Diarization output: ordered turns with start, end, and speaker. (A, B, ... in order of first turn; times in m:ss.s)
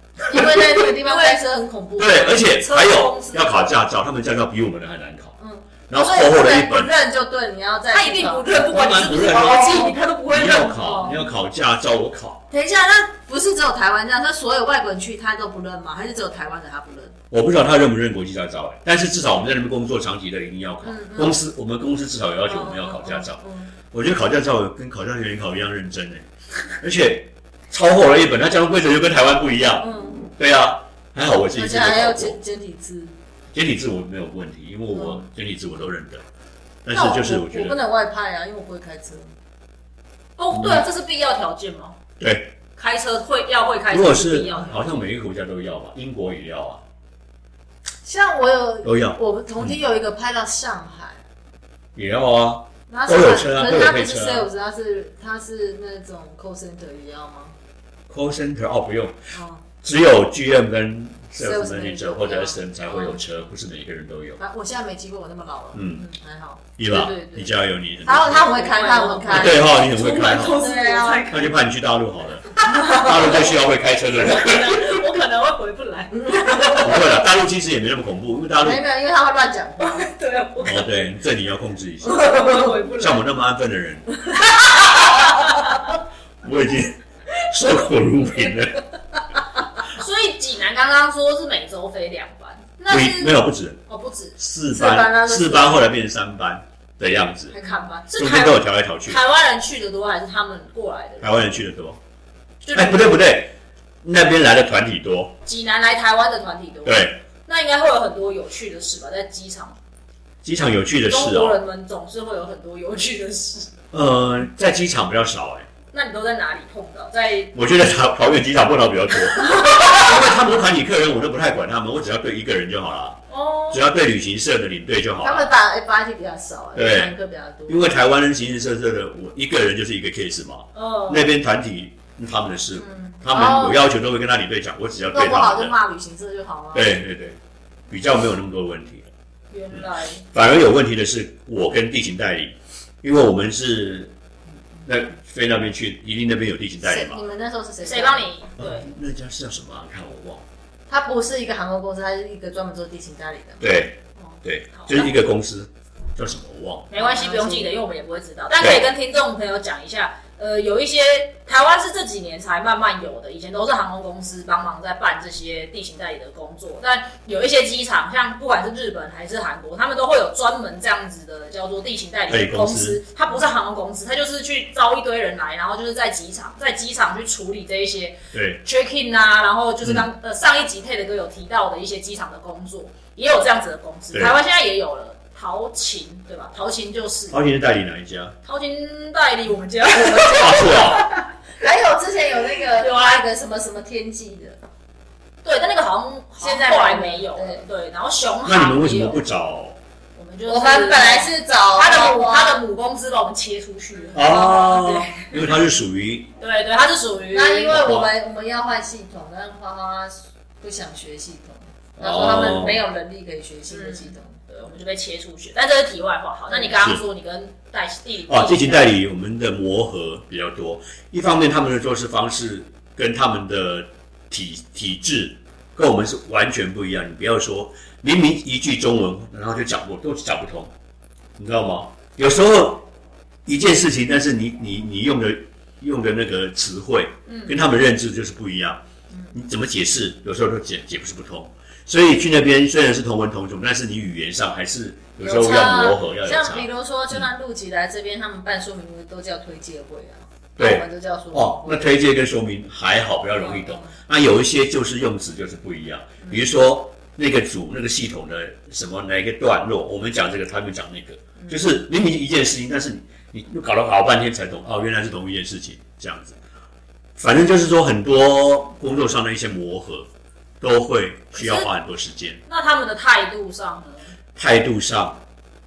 0:00.3-0:02.5 A
0:00.7-0:01.4 B
0:02.0-0:05.4 C
0:02.3-0:03.7 B
0:05.4-0:09.9 A
0:05.9-0:06.9 C
0:07.9-0:11.2 B
0:08.5-0:12.4 C
0:10.8-0:11.3 A
0:12.5-0:17.2 A
0:17.3-0:26.3 C
0:20.8-0:21.4 A
0:22.4-0:23.7 A
0:26.8-0:32.4 C
0:29.8-0:30.2 A
0:31.5-0:33.1 A
0:33.5-0:36.2 C
0:34.9-0:35.2 A
0:36.8-0:37.8 C
0:36.9-0:39.3 A
0:40.4-0:42.0 B
0:40.5-0:40.8 C
0:42.2-0:42.5 C
0:42.8-0:45.0 B
0:43.9-0:46.8 C
0:48.0-0:51.2 A
0:48.8-0:49.7 C
0:51.9-0:54.5 C
0:52.9-0:57.6 A
0:58.1-0:59.2 C
0:59.3-0:59.6 A
0:59.8-1:04.4 C
1:01.4-1:03.2 A
1:04.4-1:06.6 A
1:05.7-1:06.0 C
1:06.8-1:08.5 C
1:06.9-1:07.5 B
1:08.0-1:09.8 A
1:08.3-1:11.5 B
1:09.3-1:10.7 C
1:10.4-1:11.3 A
1:11.3-1:15.0 C
1:12.6-1:17.2 B
1:12.8-1:13.1 A
1:16.1-1:17.0 A
1:16.7-1:18.8 C
1:18.6-1:20.1 A
1:19.8-1:21.1 B
1:20.6-1:22.3 C
1:22.0-1:23.2 B
1:22.3-1:22.7 A
1:22.9-1:24.1 C
1:24.4-1:25.8 B
1:24.5-1:25.0 A
1:24.7-1:25.1 C
1:26.4-1:28.8 C
1:29.9-1:34.4 B
1:32.9-1:33.8 C
1:34.4-1:37.6 C
1:34.7-1:35.9 A
1:37.5-1:41.4 B
1:37.5-1:37.9 A
1:38.1-1:39.2 C
1:41.2-1:42.0 C
1:42.6-1:43.2 B
1:42.7-1:45.3 C
1:45.4-1:49.8 B
1:46.8-1:47.2 C
1:50.4-1:51.6 C
1:51.1-1:53.7 B
1:53.9-1:55.7 C
1:55.9-1:57.5 B
1:57.5-2:05.5 C
1:59.4-2:00.1 B
2:03.3-2:03.8 B
2:05.2-2:08.0 A
2:06.7-2:07.1 C
2:07.7-2:15.7 C
2:10.7-2:11.3 B
2:12.8-2:13.8 A
2:15.1-2:17.0 A
2:16.7-2:17.4 C
2:17.9-2:19.1 C
2:19.5-2:20.2 B
2:19.7-2:24.1 C
2:24.8-2:27.2 C
2:26.8-2:28.3 A
2:27.8-2:28.9 B
2:28.6-2:30.4 C
2:30.9-2:33.7 A
2:33.6-2:36.9 C
2:34.7-2:35.1 B
2:36.9-3:07.4 B
2:36.9-2:37.8 A
2:38.6-2:38.9 C
2:52.3-2:53.0 C
2:58.3-2:58.6 C
2:59.8-3:00.1 C
3:04.1-3:04.4 C
3:07.3-3:08.3 C
3:08.4-3:11.3 B
3:09.9-3:11.0 A
3:10.3-3:11.0 C
3:11.6-3:14.6 A
3:12.6-3:13.2 B
3:15.4-3:19.2 B
3:16.4-3:17.6 A
3:18.4-3:19.8 C
3:20.1-3:25.4 B
3:20.5-3:22.6 A
3:24.1-3:26.3 C
3:24.1-3:25.0 A
3:26.4-3:27.9 B
3:27.3-3:34.4 A
3:27.7-3:28.1 C
3:32.0-3:32.8 C
3:33.7-3:39.0 B
3:36.5-3:36.7 A
3:38.3-3:50.7 C
3:51.4-3:52.8 C
3:53.4-3:58.8 C
3:59.3-4:07.2 C
4:05.2-4:11.9 A
4:10.6-4:26.4 C
4:13.3-4:13.9 A
4:21.4-4:21.6 A
4:27.2-4:30.1 C
4:30.6-4:32.4 C
4:31.3-4:31.7 B
4:32.5-4:34.1 B
4:34.4-4:35.2 C